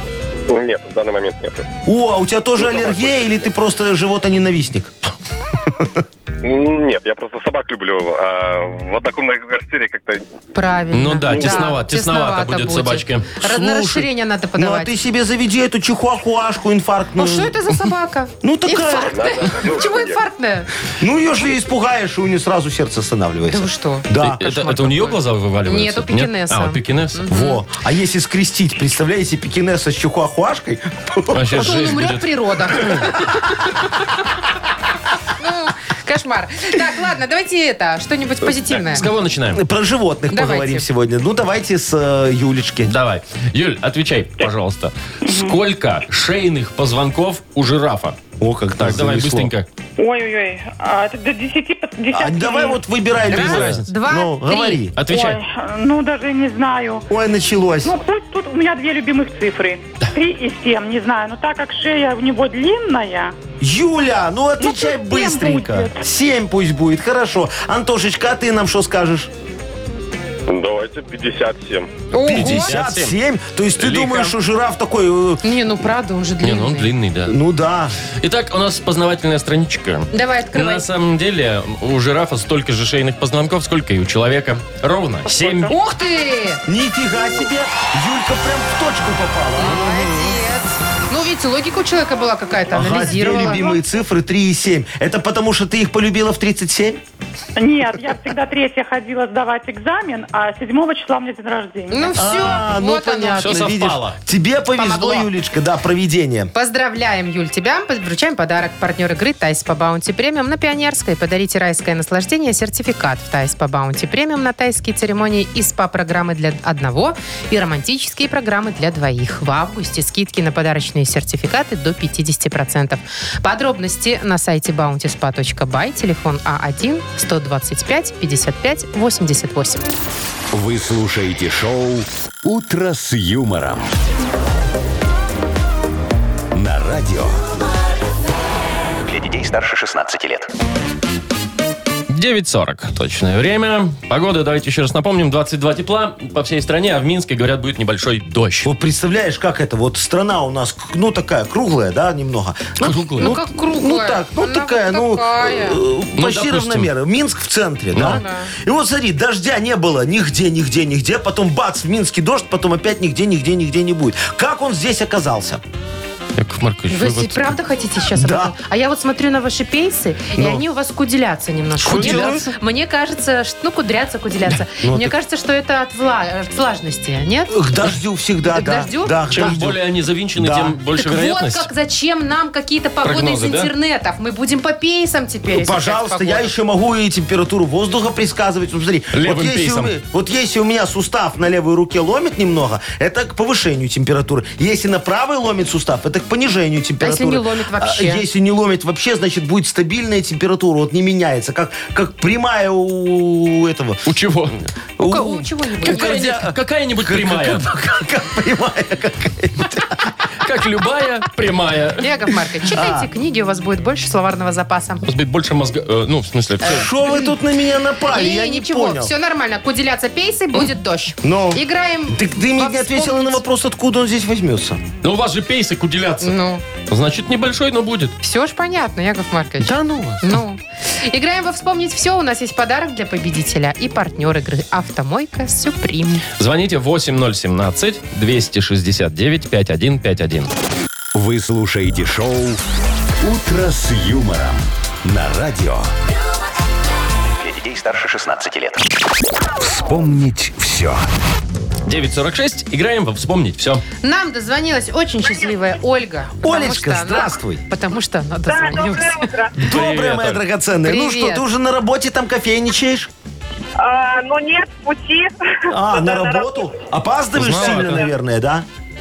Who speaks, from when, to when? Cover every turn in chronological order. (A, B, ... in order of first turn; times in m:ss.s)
0:00.5-0:01.7 A
0:01.8-0:04.9 B
0:02.6-0:03.4 A
0:06.4-0:10.3 A
0:10.5-0:14.9 C
0:10.9-0:13.5 D
0:11.3-0:11.6 A
0:13.4-0:17.6 B
0:17.2-0:20.7 C
0:18.4-0:19.6 B
0:19.1-0:20.2 A
0:21.0-0:24.7 B
0:23.5-0:27.6 C
0:24.2-0:27.2 D
0:27.3-0:31.5 B
0:31.3-0:33.1 D
0:31.5-0:33.3 C
0:35.4-0:39.0 C
0:38.7-0:39.6 D
0:39.5-0:42.9 B
0:40.3-0:40.9 C
0:42.9-0:48.2 D
0:45.2-0:45.6 E
0:48.4-0:49.5 B
0:48.8-0:49.7 D
0:50.0-0:52.8 E
0:52.1-0:55.0 B
0:53.3-0:53.9 D
0:53.4-0:54.8 C
0:55.0-0:55.4 D
0:55.1-0:57.1 E
0:57.1-0:58.0 B
0:57.8-1:03.3 E
1:03.6-1:09.3 B
1:04.6-1:06.0 E
1:10.5-1:11.9 A
1:12.1-1:12.8 C
1:12.2-1:15.4 B
1:12.3-1:13.2 D
1:13.8-1:14.4 D
1:15.4-1:16.9 C
1:16.4-1:17.4 D
1:17.3-1:18.0 B
1:18.2-1:25.7 D
1:20.1-1:20.8 C
1:25.4-1:25.7 B
1:25.7-1:26.6 C
1:26.7-1:30.4 B
1:29.6-1:33.8 C
1:32.7-1:37.0 B
1:37.6-1:42.3 E
1:41.9-1:43.7 C
1:42.2-1:46.5 B
1:43.4-1:44.2 D
1:44.8-1:45.3 C
1:46.5-2:09.9 C
2:10.5-2:13.9 F
2:16.5-2:17.4 F
2:19.0-2:20.5 G
2:22.1-2:28.7 D
2:28.6-2:45.6 B
2:32.8-2:33.4 D
2:33.2-2:35.8 C
2:36.2-2:36.9 D
2:37.9-2:38.2 D
2:38.0-2:38.5 C
2:46.4-2:47.6 D
2:46.9-2:57.6 C
2:48.2-2:48.6 B
2:50.4-2:50.6 B
2:51.8-2:52.5 B
2:51.8-2:52.4 D
2:54.8-2:55.1 B
2:57.5-2:59.8 B
2:58.5-2:59.6 C
2:59.3-3:01.7 D
3:00.4-3:00.8 B
3:01.0-3:06.5 C
3:03.0-3:03.7 D
3:05.5-3:24.0 B
3:09.1-3:09.9 D
3:17.0-3:18.2 C
3:24.1-3:24.6 D
3:25.0-3:30.2 B
3:25.0-3:26.4 C
3:25.8-3:27.7 D
3:30.4-3:32.1 D
3:32.0-3:35.0 C
3:32.7-3:33.1 B
3:35.0-3:36.9 D
3:36.6-3:39.1 B
3:36.7-3:37.3 C
3:38.1-3:43.4 C
3:41.2-3:44.8 B
3:45.0-3:48.2 D
3:46.2-3:46.6 C
3:48.2-3:56.3 C
3:49.6-3:50.4 B
3:56.4-4:00.5 D
4:01.1-4:02.6 F
4:03.2-4:05.9 F
4:07.4-4:08.9 G
4:09.6-4:11.1 F
4:11.9-4:13.8 D
4:14.0-4:19.3 C
4:16.4-4:17.6 B
4:18.5-4:19.6 H
4:19.6-4:23.1 B
4:19.6-4:20.4 D
4:20.8-4:21.4 C
4:23.8-4:26.8 H
4:25.7-4:28.7 B
4:27.4-4:28.1 D
4:27.8-4:28.1 H